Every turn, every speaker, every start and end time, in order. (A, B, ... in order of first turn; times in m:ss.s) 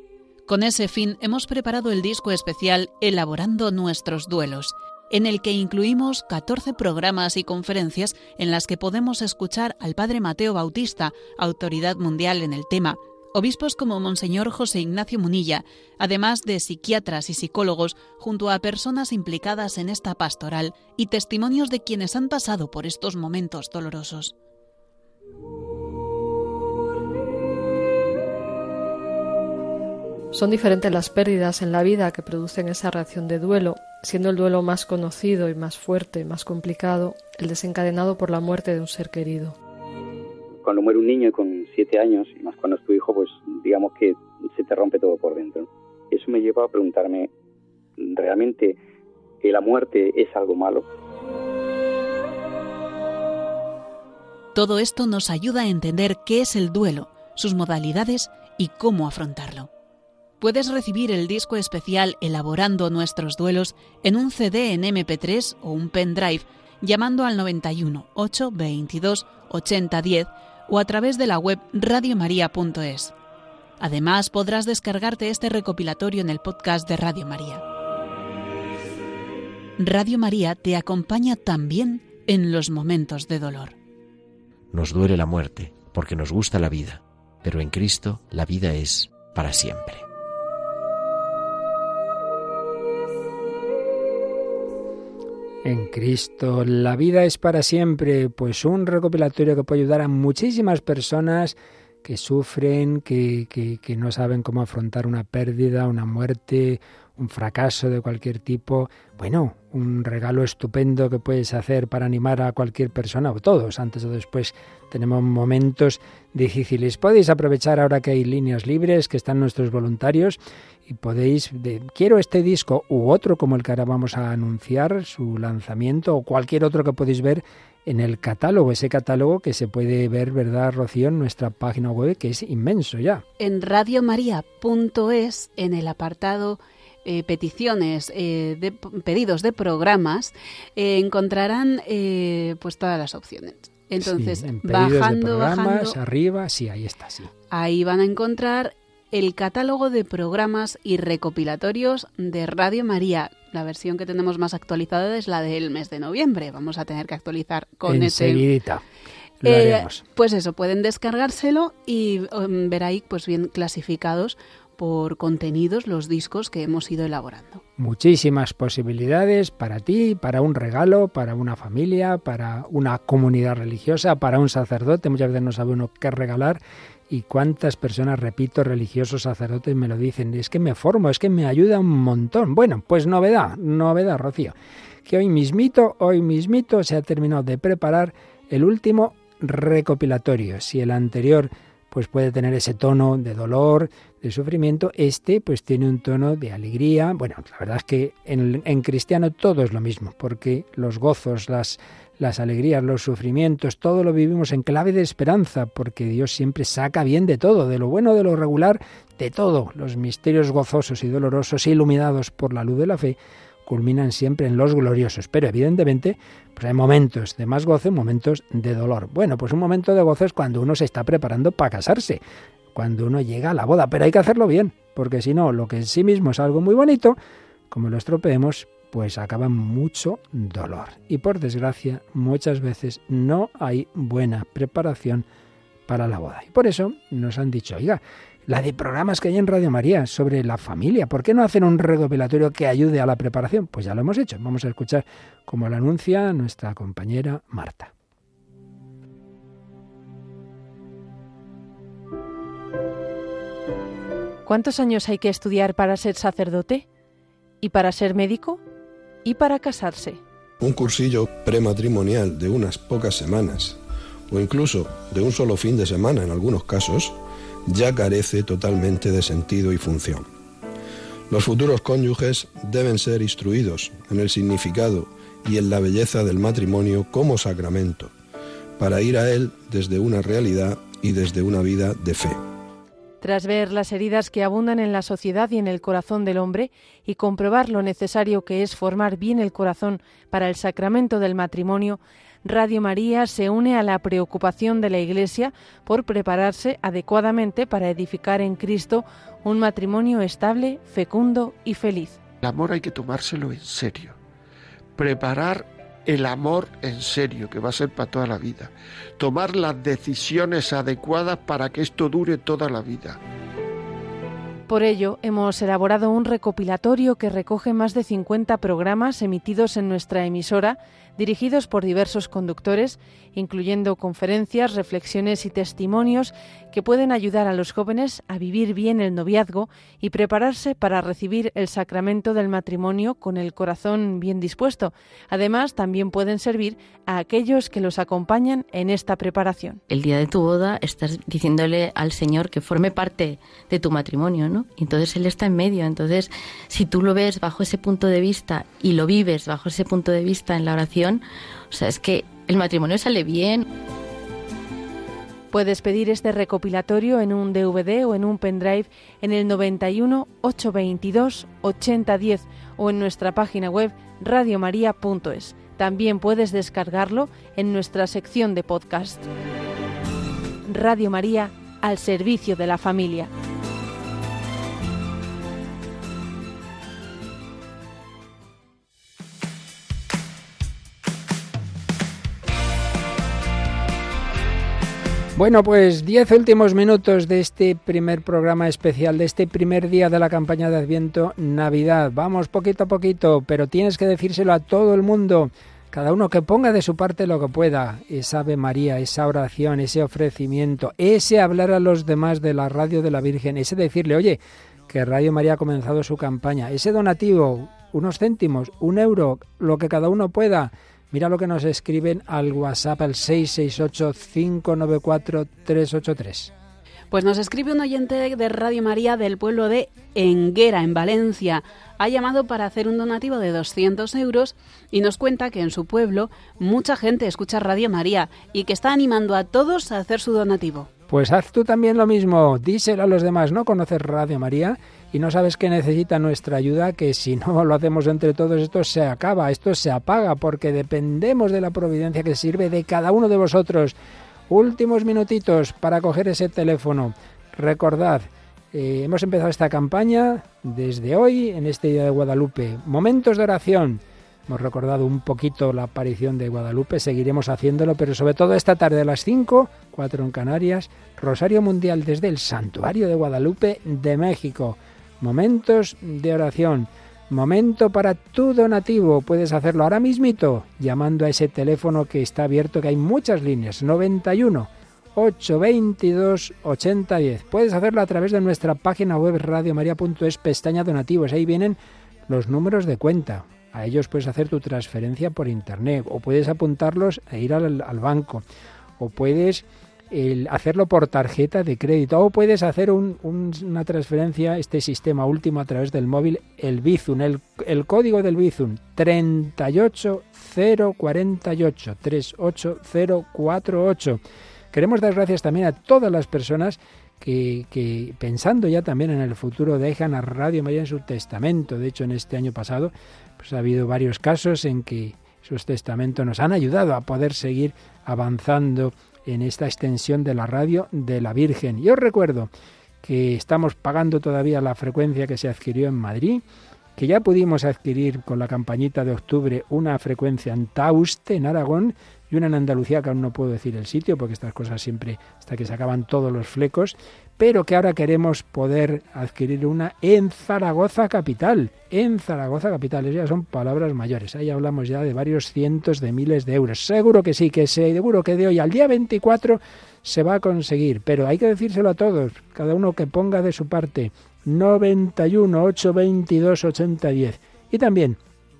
0:00.5-0:24.3 A
0:30.3-0:39.6 B
0:40.6-0:47.3 C
0:48.0-0:48.8 C
0:49.4-0:50.8 C
0:54.5-0:59.7 A
1:00.4-1:13.1 A
1:13.8-1:17.6 A
1:19.8-1:23.8 A
1:24.7-1:30.0 D
1:35.6-2:13.2 E
2:13.4-2:26.0 A
2:24.0-2:27.3 E
2:27.5-2:38.4 A
2:37.8-2:38.8 E
2:39.4-2:40.0 E
2:39.4-2:47.6 A
2:47.8-3:04.5 E
3:05.0-3:42.2 E
3:42.7-3:47.2 E
3:47.7-3:55.2 E
3:55.9-4:07.9 E
4:14.4-4:16.8 F
4:17.6-4:18.6 F
4:19.2-4:20.2 F
4:20.6-4:23.8 G
4:24.3-4:30.3 G
4:31.3-4:38.1 G
4:38.8-4:42.4 G
4:43.2-5:02.2 F
5:02.4-5:04.2 H
5:05.0-5:13.2 H
5:14.7-5:39.8 F
5:39.9-5:53.6 I
5:55.5-6:09.3 F
6:10.7-6:13.3 F
6:25.4-6:56.5 E
6:57.1-7:10.9 A
7:11.1-7:24.0 E
7:24.5-8:08.4 E
8:09.0-8:24.2 E
8:24.7-8:42.5 E
8:43.0-8:46.4 E
8:47.0-9:18.2 E